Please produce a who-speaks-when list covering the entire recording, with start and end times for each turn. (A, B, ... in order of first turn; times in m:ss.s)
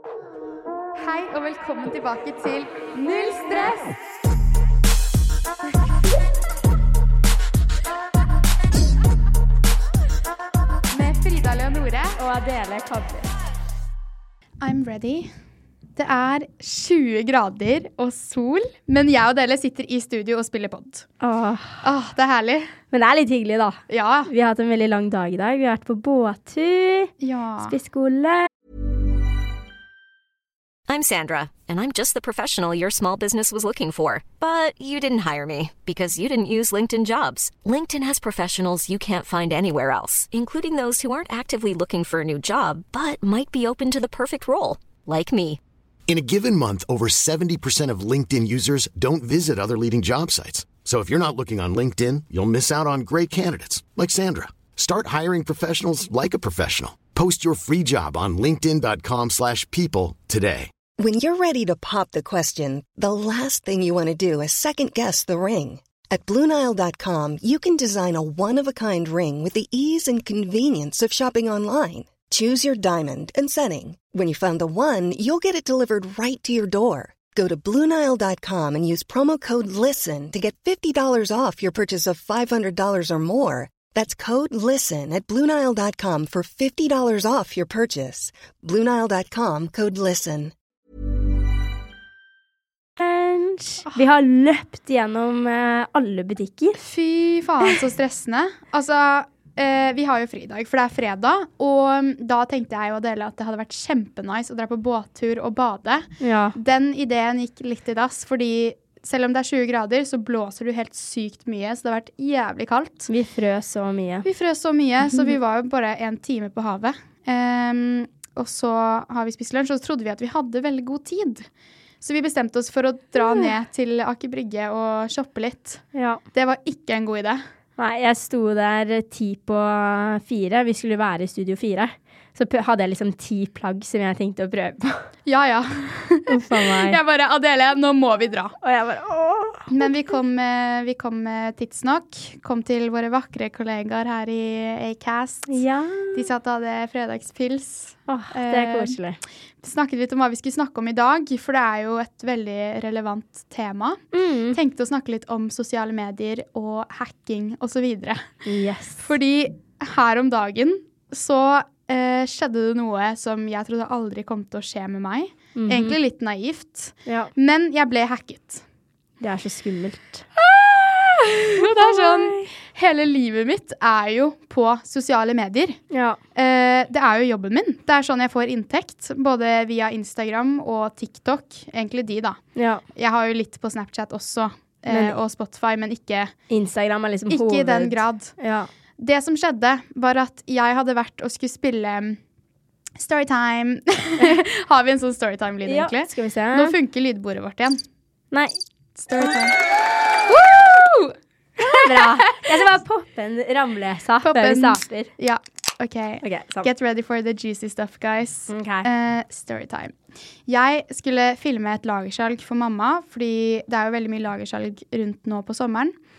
0:01.0-0:03.9 A
0:10.9-0:12.2 A
0:12.2-0:13.3 B
0:14.6-0:15.3 A
0:16.0-0:21.1 A
0:21.2-0:21.8 B
0:21.8-0:22.7 A
0:22.9-0:27.1 B
0:23.9-0:24.3 A
0:27.2-0:27.8 A
0:27.6-0:28.5 B
0:30.9-0:45.6 C
0:46.1-1:00.7 D
1:01.0-1:30.5 E
1:33.0-1:36.8 B
1:36.8-1:53.1 A
1:46.2-1:46.6 B
1:53.1-1:54.3 B
1:54.2-2:01.5 A
1:55.0-1:55.4 B
2:02.0-2:05.8 A
2:03.2-2:03.5 B
2:05.9-2:06.2 B
2:06.3-2:07.4 A
2:07.8-2:15.1 B
2:15.3-2:18.5 A
2:16.3-2:17.0 B
2:18.6-2:19.9 B
2:19.7-2:25.6 A
2:25.5-2:26.3 B
2:26.1-2:29.0 A
2:28.1-2:29.2 B
2:29.6-2:38.4 A
2:34.1-2:34.6 B
2:38.4-2:39.0 B
2:39.0-2:48.6 A
2:45.6-2:46.0 B
2:47.1-2:47.3 B
2:49.2-2:50.2 B
2:50.4-2:55.8 A
2:51.6-2:52.5 B
2:55.9-2:56.2 B
2:56.4-3:02.4 A
3:02.6-3:02.8 B
3:03.0-3:06.3 A
3:04.9-3:05.2 B
3:06.5-3:08.7 B
3:07.3-3:08.3 A
3:09.0-3:12.2 A
3:13.0-3:17.8 A
3:15.6-3:16.8 B
3:19.0-3:19.6 A
3:20.3-3:22.4 A
3:21.7-3:25.1 B
3:24.2-3:30.0 A
3:26.2-3:26.7 B
3:28.5-3:28.9 B
3:30.5-3:36.0 A